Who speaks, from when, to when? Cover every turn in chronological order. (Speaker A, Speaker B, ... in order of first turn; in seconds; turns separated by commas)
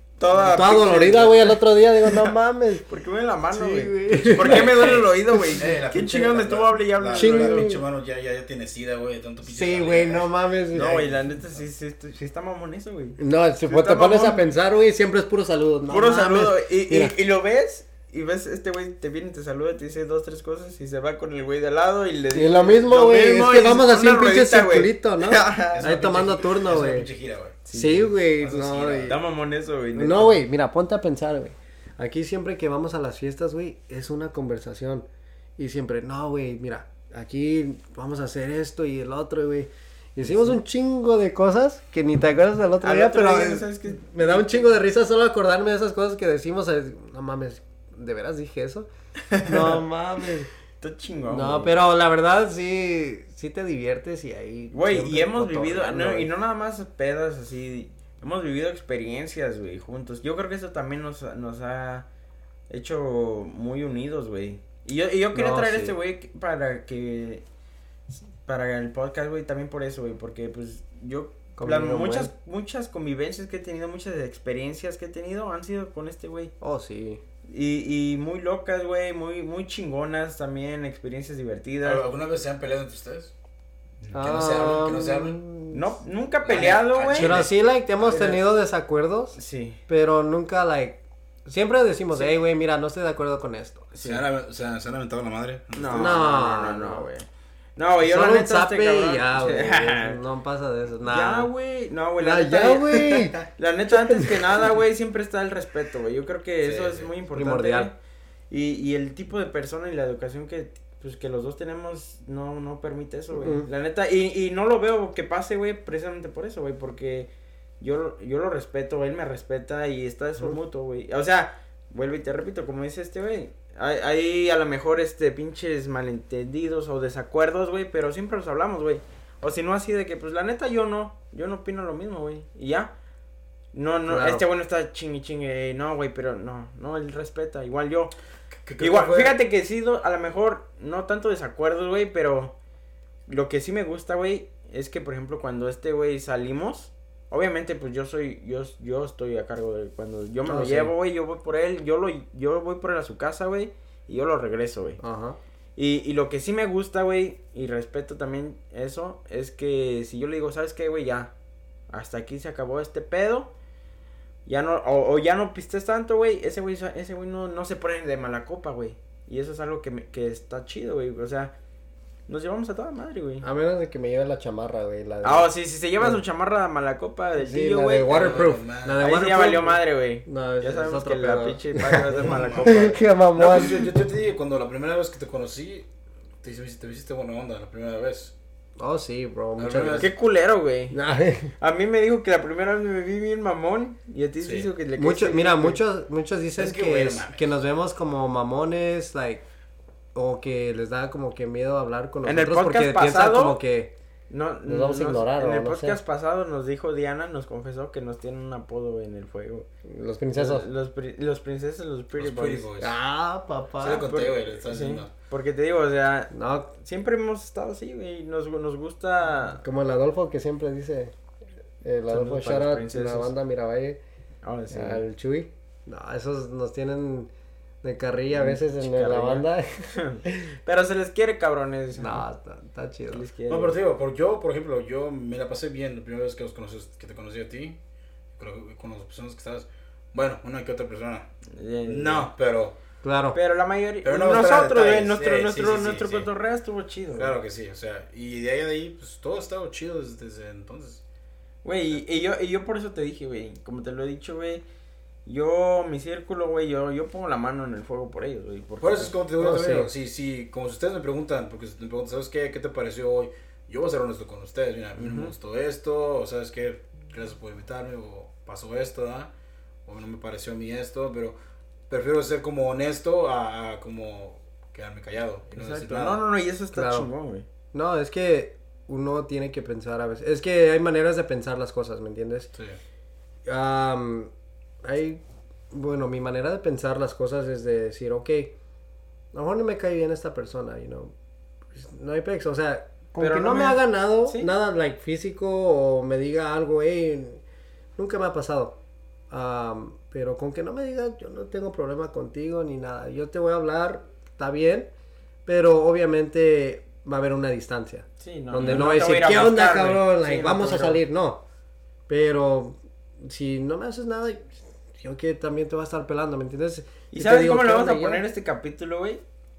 Speaker A: 0.2-2.3, Speaker B: 0.3-2.8, Speaker A: 2.9-7.7, Speaker B: 3.5-5.6, Speaker C: 5.6-10.3, Speaker B: 7.1-7.8, Speaker B: 9.4-11.1, Speaker A: 10.7-14.5, Speaker B: 13.2-17.1, Speaker A: 15.9-25.8, Speaker B: 22.3-27.1, Speaker C: 25.7-27.6, Speaker A: 27.6-28.1, Speaker B: 27.7-29.1, Speaker C: 28.2-29.2, Speaker A: 29.1-30.4, Speaker B: 29.9-48.9, Speaker A: 42.8-44.7, Speaker A: 49.3-49.7, Speaker B: 49.4-50.5, Speaker A: 50.8-51.8, Speaker B: 51.3-56.3, Speaker A: 54.7-62.0, Speaker A: 62.7-67.4, Speaker B: 65.3-65.9, Speaker A: 68.4-76.5, Speaker B: 71.6-72.3, Speaker B: 76.6-77.2, Speaker A: 77.5-82.0, Speaker C: 81.8-83.3, Speaker C: 84.0-85.4, Speaker B: 84.1-86.0, Speaker A: 85.7-87.3, Speaker C: 86.5-88.4, Speaker B: 87.1-93.9, Speaker A: 89.3-89.8, Speaker A: 93.9-94.2, Speaker C: 94.0-96.2, Speaker A: 95.8-100.2, Speaker B: 95.9-97.1, Speaker B: 98.0-101.5, Speaker A: 101.0-107.9, Speaker B: 102.2-103.4, Speaker B: 103.9-104.4, Speaker C: 106.6-107.1, Speaker B: 107.3-107.9, Speaker A: 108.5-117.3, Speaker B: 113.3-113.7, Speaker A: 117.8-132.9, Speaker A: 133.7-138.1, Speaker B: 134.1-134.4, Speaker C: 138.7-139.4, Speaker A: 138.8-142.5, Speaker A: 143.3-155.0, Speaker B: 150.4-150.9, Speaker B: 155.0-155.4, Speaker A: 155.8-161.3, Speaker A: 161.9-163.5, Speaker A: 164.4-171.5, Speaker A: 172.3-173.4, Speaker B: 173.4-175.5, Speaker A: 175.2-178.5, Speaker B: 177.4-183.9, Speaker C: 178.0-179.1, Speaker A: 179.0-183.0, Speaker C: 182.2-185.9, Speaker C: 186.4-188.3, Speaker B: 188.8-190.1, Speaker C: 189.6-190.1, Speaker A: 190.0-191.0, Speaker B: 190.9-191.5, Speaker A: 191.6-195.8, Speaker C: 194.4-194.7, Speaker B: 195.0-199.4, Speaker C: 196.6-197.4, Speaker B: 200.1-203.9, Speaker A: 202.2-203.6, Speaker A: 204.3-209.7, Speaker B: 204.7-206.0, Speaker B: 209.8-210.7, Speaker A: 210.3-212.7, Speaker C: 212.2-212.9, Speaker B: 212.8-214.1, Speaker C: 213.8-215.1, Speaker A: 213.9-219.6, Speaker B: 216.3-216.7, Speaker B: 219.6-221.1, Speaker B: 221.8-224.0, Speaker A: 222.1-223.3, Speaker A: 224.4-225.0, Speaker B: 224.7-227.3, Speaker B: 227.8-229.7, Speaker A: 228.3-232.2, Speaker B: 230.2-230.5, Speaker B: 232.0-233.2, Speaker A: 233.1-233.8, Speaker C: 233.5-237.8, Speaker C: 238.4-241.3, Speaker A: 241.5-242.3, Speaker C: 241.9-242.8, Speaker B: 243.0-243.4, Speaker A: 243.3-247.3, Speaker C: 244.0-246.3, Speaker C: 247.1-251.0, Speaker A: 251.6-254.6, Speaker A: 255.2-259.1, Speaker C: 258.8-269.3, Speaker B: 259.4-259.9, Speaker A: 265.0-265.3, Speaker C: 269.9-271.4, Speaker C: 271.9-276.2, Speaker A: 275.5-277.5, Speaker B: 276.7-277.1, Speaker B: 277.7-282.5, Speaker B: 283.4-284.3, Speaker B: 284.8-288.5, Speaker B: 289.3-291.1, Speaker B: 291.7-297.4, Speaker A: 293.2-294.5, Speaker B: 298.0-298.8, Speaker B: 299.3-304.9, Speaker B: 305.4-311.4, Speaker A: 308.2-311.0, Speaker B: 312.1-318.2, Speaker A: 317.1-319.2